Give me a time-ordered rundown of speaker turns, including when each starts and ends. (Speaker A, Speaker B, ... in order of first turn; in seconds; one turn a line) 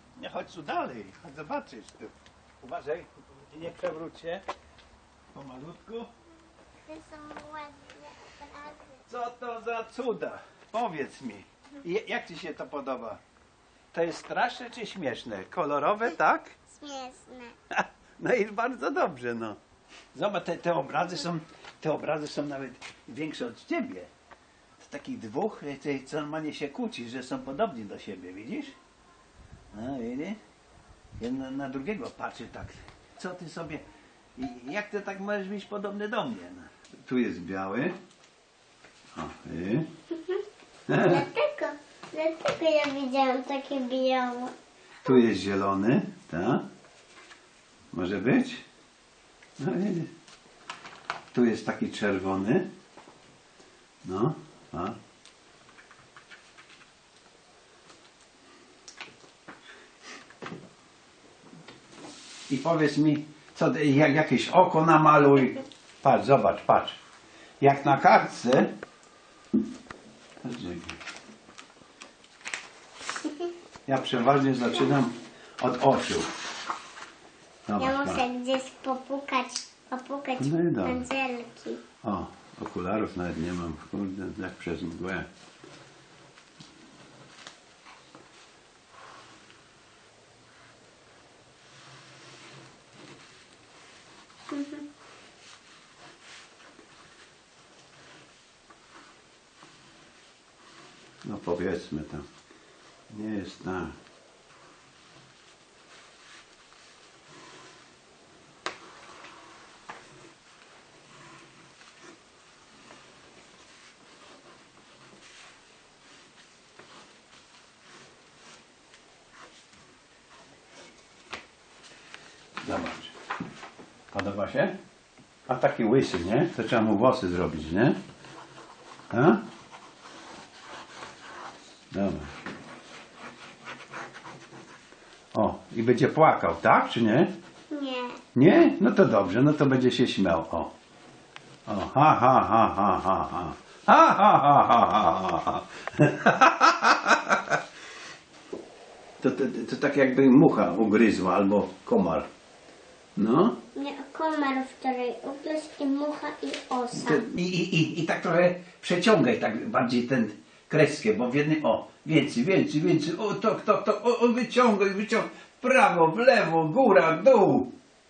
Speaker A: 0.1-4.4
Speaker A: 5.3-6.1
Speaker B: 6.8-9.0
Speaker A: 9.1-13.2
Speaker A: 13.9-16.6
Speaker B: 16.7-17.6
Speaker A: 17.7-19.6
Speaker A: 20.1-24.1
Speaker A: 24.8-28.8
Speaker A: 29.7-30.4
Speaker A: 31.2-33.8
Speaker A: 34.4-38.0
Speaker A: 39.1-39.9
Speaker A: 40.9-41.3
Speaker B: 41.0-44.5
Speaker A: 45.0-46.6
Speaker A: 47.9-48.6
Speaker A: 49.6-50.1
Speaker A: 51.3-52.7
Speaker A: 54.0-55.0
Speaker A: 62.5-67.0
Speaker A: 67.6-68.7
Speaker A: 70.4-71.0
Speaker A: 73.9-76.3
Speaker A: 77.7-78.3
Speaker B: 77.8-81.8
Speaker A: 80.4-81.1
Speaker A: 82.0-85.3
Speaker B: 94.5-94.9
Speaker A: 101.2-102.3
Speaker A: 103.1-104.0
Speaker A: 122.6-123.1
Speaker A: 124.1-124.8
Speaker A: 125.5-128.0
Speaker A: 129.1-129.4
Speaker A: 131.9-132.3
Speaker A: 135.3-137.3
Speaker B: 137.7-138.2
Speaker A: 138.3-140.7
Speaker A: 141.7-147.6
Speaker A: 149.2-152.3
Speaker A: 153.2-153.6
Speaker B: 153.7-157.2
Speaker A: 156.9-167.7